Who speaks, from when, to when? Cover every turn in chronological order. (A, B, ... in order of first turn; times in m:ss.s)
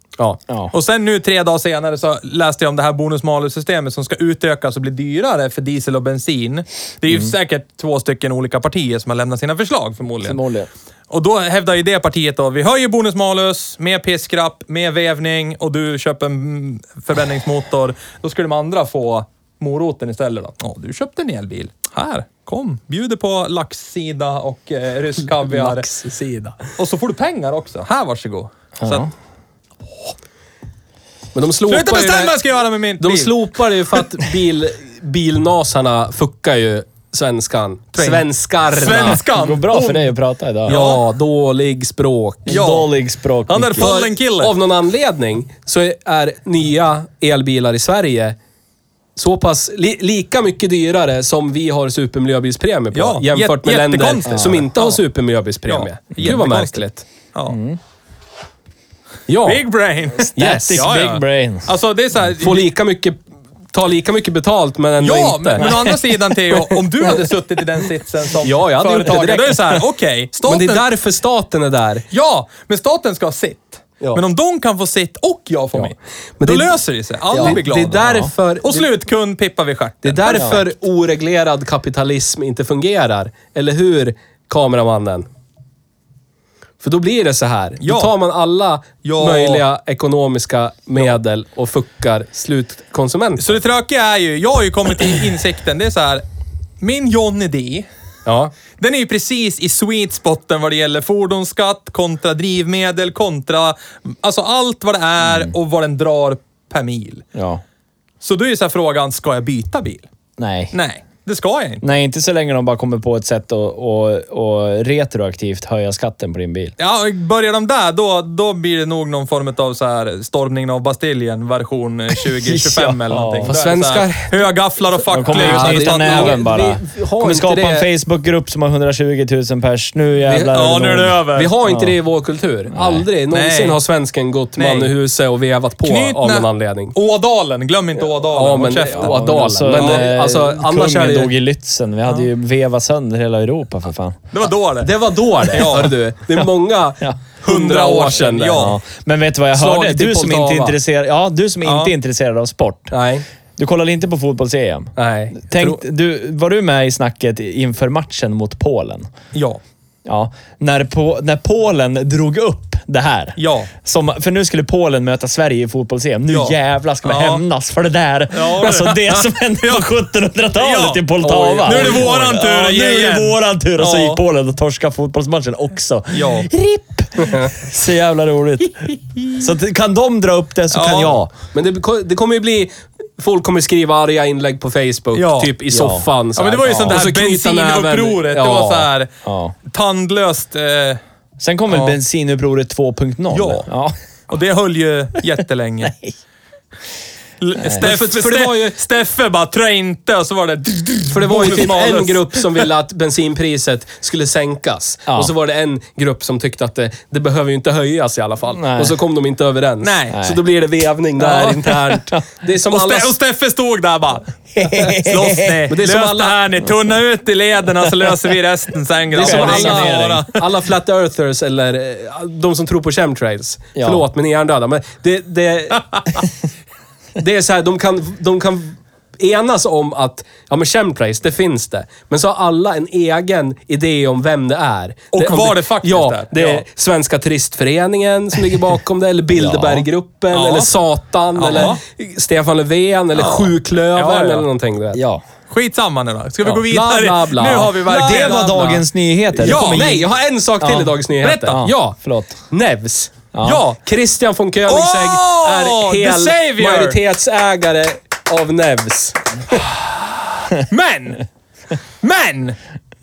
0:00.7-0:10.4 A
0:10.2-0:10.7 B
0:11.1-0:25.9 A
0:25.4-0:26.7 C
0:26.8-0:29.1 A
0:28.8-0:29.1 B
0:31.4-0:32.4 C
0:31.7-0:34.0 A
0:33.0-0:39.2 C
0:38.0-0:40.1 A
0:38.9-0:40.8 B
0:40.7-0:41.0 A
0:40.7-0:42.8 C
0:42.5-0:43.9 B
0:42.5-0:42.9 A
0:43.5-0:44.6 A
0:43.8-0:48.4 C
0:49.2-0:57.0 C
0:52.9-0:55.0 A
0:54.3-0:54.6 B
0:55.7-0:57.6 A
0:57.5-0:57.8 B
0:59.3-0:59.6 C
0:59.4-1:02.7 A
1:00.3-1:01.7 B
1:00.4-1:00.9 C
1:02.4-1:03.2 C
1:03.7-1:05.9 C
1:05.0-1:10.9 A
1:05.6-1:06.0 B
1:08.4-1:09.8 C
1:10.4-1:12.0 C
1:12.1-1:20.6 A
1:15.8-1:16.8 C
1:17.3-1:18.3 B
1:17.3-1:18.9 C
1:20.0-1:25.3 C
1:20.3-1:20.6 B
1:26.8-1:33.6 C
1:27.8-1:28.1 A
1:29.0-1:29.6 A
1:33.4-1:36.2 A
1:36.8-1:37.9 A
1:38.3-1:38.5 C
1:38.8-1:47.3 A
1:45.2-1:45.6 B
1:47.4-1:47.6 B
1:48.2-1:50.1 A
1:50.4-1:50.7 B
1:50.7-1:51.8 A
1:51.8-1:56.8 B
1:56.8-2:06.4 A
2:02.4-2:03.5 B
2:03.5-2:04.5 C
2:05.1-2:12.0 B
2:05.2-2:07.9 C
2:10.3-2:10.5 C
2:10.5-2:11.5 A
2:11.4-2:17.0 C
2:12.7-2:13.1 B
2:13.3-2:13.8 A
2:14.6-2:14.9 A
2:15.8-2:20.0 A
2:18.1-2:21.4 C
2:18.9-2:24.2 B
2:24.3-2:26.0 A
2:24.8-2:28.7 C
2:27.4-2:28.8 A
2:28.5-2:32.9 B
2:29.5-2:30.8 C
2:31.6-2:31.9 A
2:32.9-2:33.2 C
2:33.6-2:39.1 B
2:35.0-2:35.8 C
2:39.3-2:39.6 A
2:40.0-3:01.3 B
2:43.4-2:43.7 A
2:46.3-2:47.4 A
2:48.3-2:49.9 A
2:50.6-2:51.1 A
2:51.2-2:52.2 C
2:51.6-2:54.2 A
2:56.1-2:56.5 A
2:57.2-2:57.5 C
2:59.2-2:59.4 A
3:00.7-3:01.2 A
3:01.5-3:08.9 C
3:05.1-3:05.6 A
3:05.7-3:06.1 B
3:06.4-3:09.1 A
3:06.7-3:07.0 B
3:09.2-3:09.6 B
3:09.7-3:11.0 A
3:11.4-3:14.0 B
3:11.7-3:12.0 A
3:13.3-3:13.7 A
3:14.3-3:16.0 A
3:15.8-3:16.1 B
3:17.4-3:22.7 A
3:17.6-3:17.9 B
3:17.8-3:18.8 C
3:21.1-3:33.2 C
3:25.1-3:25.3 B
3:28.5-3:29.0 B
3:29.8-3:30.2 A
3:30.1-3:30.4 B
3:31.2-3:31.8 A
3:31.9-3:32.2 B
3:32.7-3:40.4 A
3:34.6-3:35.6 B
3:35.7-3:36.4 C
3:39.1-3:46.0 C
3:39.2-3:40.3 B
3:43.8-3:44.0 B
3:47.2-4:05.0 C
3:55.1-3:56.6 A
3:59.3-3:59.9 B
4:00.3-4:00.7 A
4:01.4-4:01.8 A
4:03.2-4:04.5 A
4:04.9-4:05.2 B
4:05.5-4:08.8 A
4:06.4-4:08.8 C
4:07.9-4:10.0 B
4:09.4-4:10.0 A
4:09.4-4:12.0 C
4:10.6-4:12.4 B
4:11.2-4:11.6 A
4:12.5-4:19.6 C
4:13.3-4:13.6 B
4:13.4-4:13.8 A
4:14.7-4:17.0 A
4:20.6-4:21.2 A
4:22.0-4:22.6 A